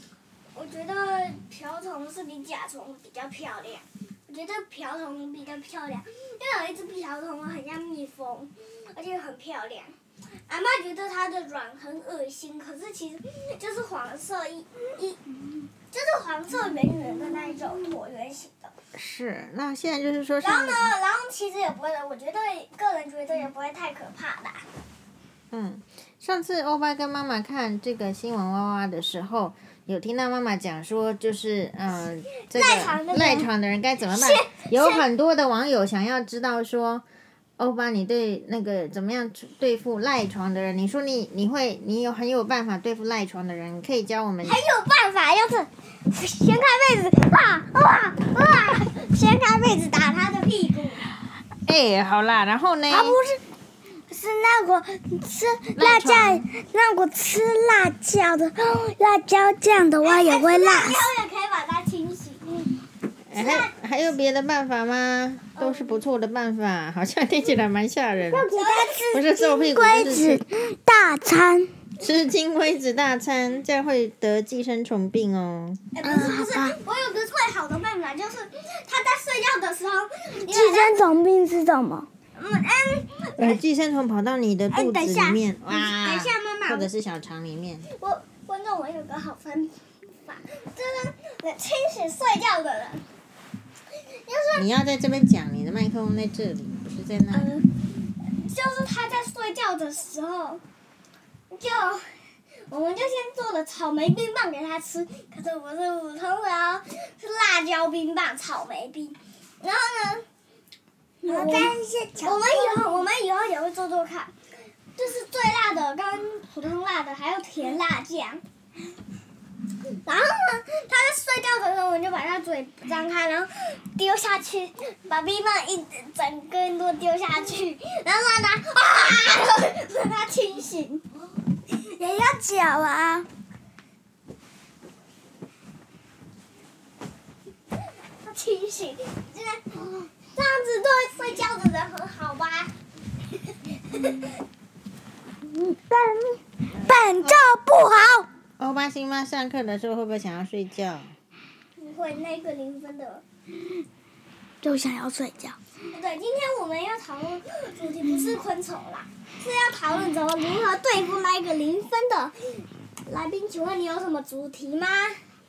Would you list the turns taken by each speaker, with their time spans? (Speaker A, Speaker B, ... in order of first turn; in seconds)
Speaker A: 0.5-9.9, 10.5-15.2, 15.9-18.7, 20.4-24.6, 32.5-33.5, 34.1-35.0, 44.4-51.0, 60.0-62.6, 63.3-63.7, 65.6-66.0, 68.5-69.2, 75.9-81.0, 82.3-83.6, 84.7-86.9, 87.9-93.0, 94.0-94.7, 97.3-100.6, 101.5-102.1, 102.7-110.2, 111.2-114.3, 115.0-118.4, 120.0-131.0, 138.2-142.7, 143.9-144.2, 151.8-153.2, 155.9-162.3, 163.1-165.2
Speaker B: 18.9-20.9, 25.5-37.0, 37.6-44.6, 51.6-53.2, 55.7-56.5, 63.3-68.5, 69.1-70.4, 72.0-75.9, 83.4-87.9, 94.5-97.6, 146.7-147.5, 148.6-151.1
Speaker C: 52.9-53.4, 54.1-61.0, 68.3-71.7, 76.0-76.8, 80.4-82.1, 111.2-113.0, 131.8-133.3, 145.5-148.3, 154.6-155.6